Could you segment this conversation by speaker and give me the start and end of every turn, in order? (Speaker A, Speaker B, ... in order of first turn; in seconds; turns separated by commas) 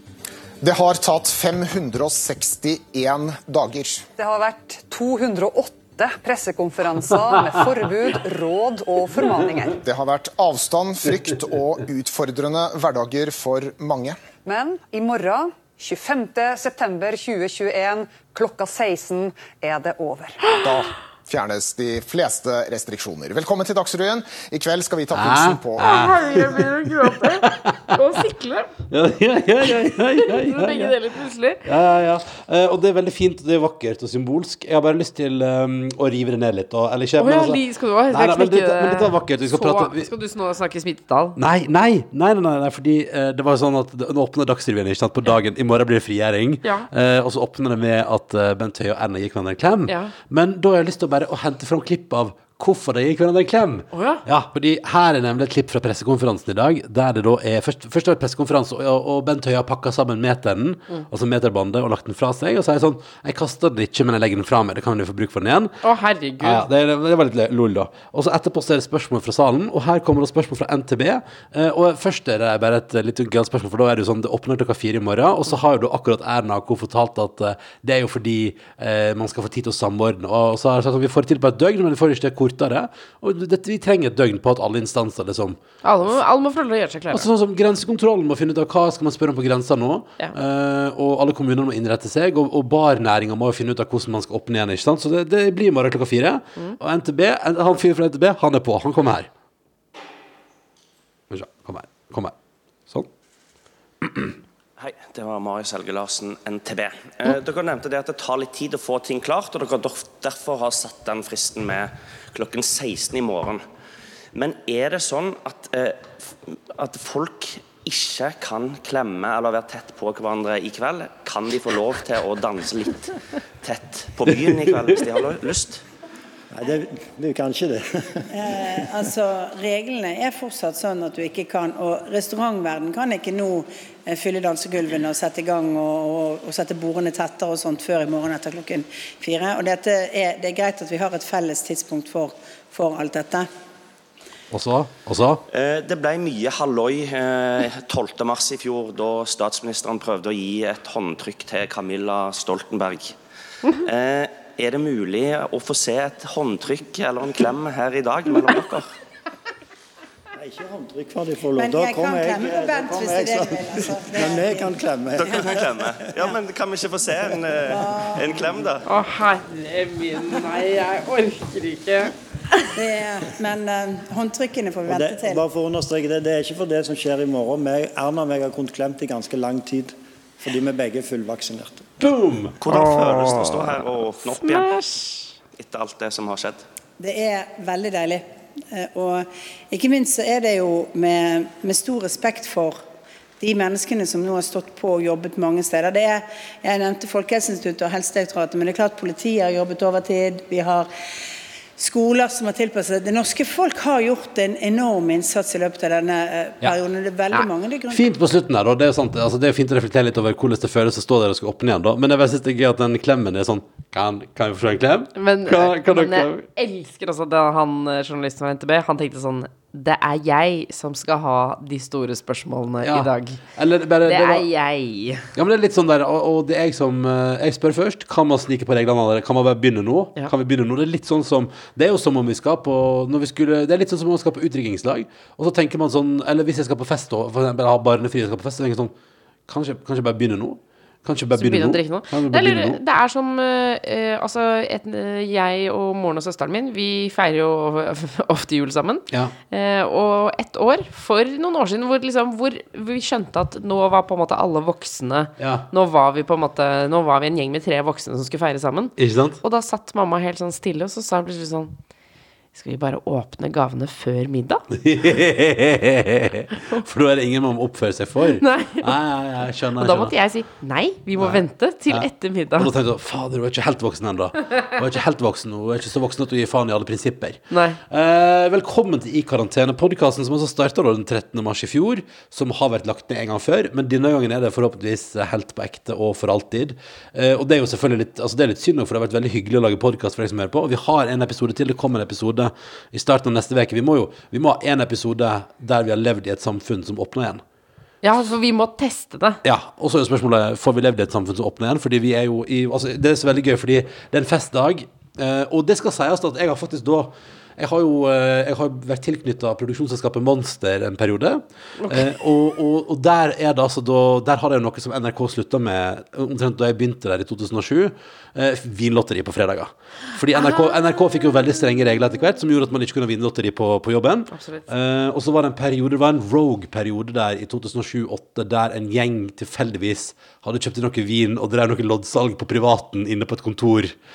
Speaker A: 0.6-4.0, Speaker B: 4.2-9.8, Speaker A: 9.8-14.2, Speaker B: 14.4-20.6, Speaker A: 20.5-26.1, Speaker C: 25.1-28.0, Speaker D: 25.8-28.7, Speaker C: 28.9-31.0, Speaker D: 29.8-31.6, Speaker C: 31.6-40.1, Speaker D: 37.2-41.4, Speaker C: 41.4-65.8, Speaker D: 49.9-50.1, Speaker D: 53.9-54.2, Speaker D: 65.8-66.7, Speaker C: 66.4-85.6, Speaker D: 85.8-87.3, Speaker C: 87.1-99.3, Speaker C: 101.3-102.3, Speaker C: 104.0-104.3, Speaker E: 104.8-113.6, Speaker E: 114.3-125.8, Speaker C: 124.3-125.0, Speaker F: 126.5-128.9, Speaker G: 128.3-143.5, Speaker C: 144.5-145.4, Speaker E: 145.5-153.2, Speaker E: 153.7-158.9, Speaker F: 160.4-166.2, Speaker G: 161.6-164.8, Speaker E: 165.1-168.8, Speaker G: 167.7-168.4, Speaker D: 168.9-172.1, Speaker G: 172.8-175.4, Speaker F: 174.8-181.9, Speaker C: 182.0-182.6, Speaker E: 182.6-184.7, Speaker D: 182.7-183.6, Speaker D: 184.4-185.3, Speaker E: 185.5-186.6, Speaker G: 187.0-192.8, Speaker G: 193.4-200.9, Speaker G: 201.8-208.1, Speaker C: 207.9-216.5, Speaker D: 215.2-223.4, Speaker C: 222.8-224.5, Speaker D: 224.1-225.3, Speaker C: 225.3-238.9, Speaker C: 239.5-242.8, Speaker D: 241.4-261.7, Speaker C: 255.4-255.7, Speaker C: 259.0-259.4, Speaker D: 262.5-264.6, Speaker C: 264.7-270.1, Speaker D: 266.6-266.8, Speaker D: 268.2-268.9, Speaker D: 269.8-272.7, Speaker C: 271.2-297.4, Speaker D: 277.5-277.8, Speaker D: 298.0-299.4, Speaker C: 299.4-334.0, Speaker D: 311.8-312.2, Speaker D: 320.3-320.7, Speaker D: 324.3-324.7